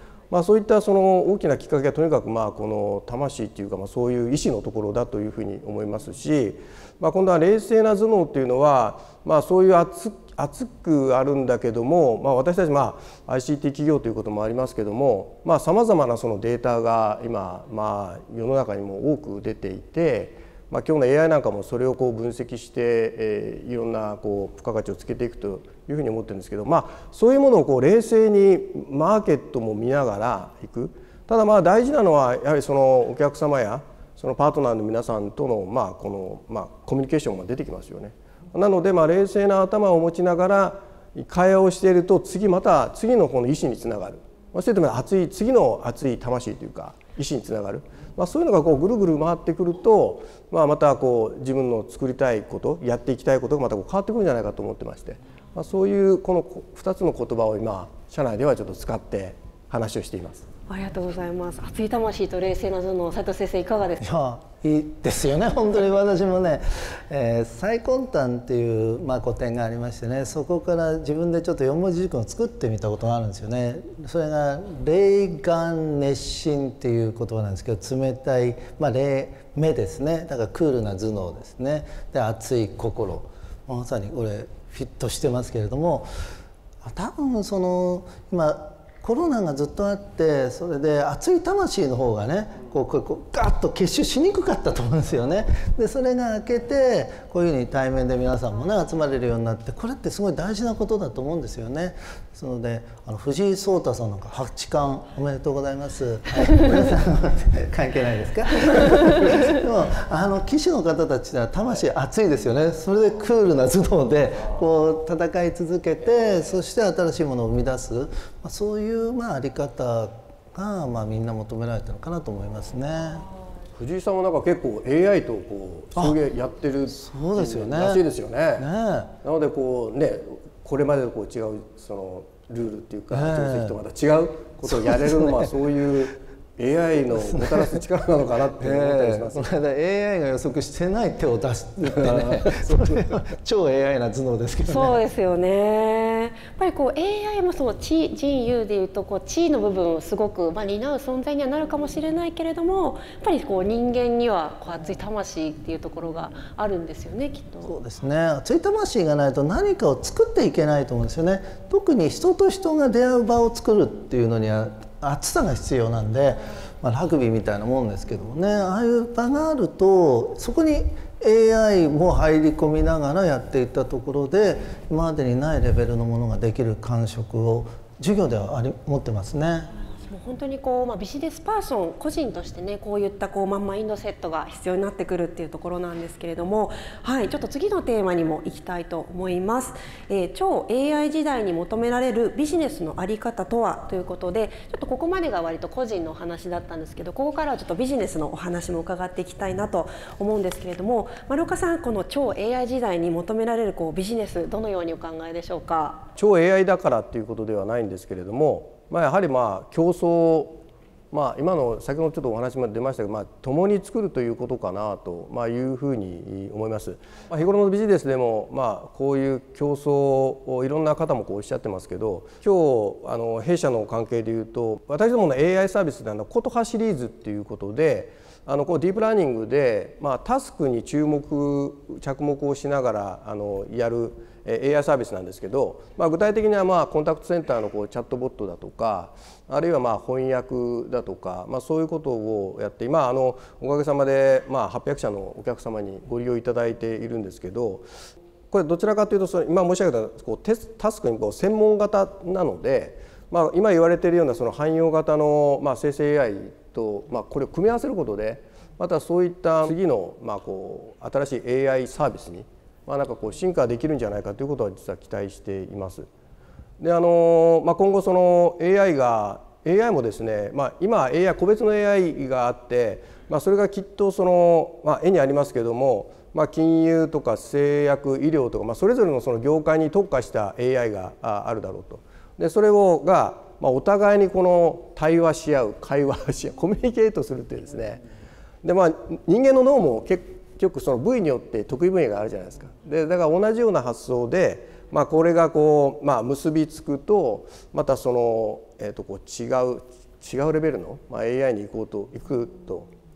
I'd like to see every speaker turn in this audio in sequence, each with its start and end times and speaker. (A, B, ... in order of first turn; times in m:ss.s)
0:00.3-1:00.4 A
1:00.7-1:04.1 B
1:04.0-1:26.1 C
1:26.8-2:03.3 C
2:03.8-2:08.7 A
2:06.9-2:08.0 C
2:08.6-2:09.1 C
2:09.2-2:19.5 A
2:13.1-2:13.8 C
2:14.7-2:15.5 C
2:17.2-2:17.8 C
2:18.6-2:25.0 C
2:21.9-2:23.1 A
2:24.7-2:37.8 B
2:37.6-2:59.7 C
3:00.0-3:26.0 B
3:26.2-3:30.6 A
3:31.1-4:07.9 A
4:08.5-4:26.1 A
4:26.8-4:48.0 A
4:48.6-5:02.9 A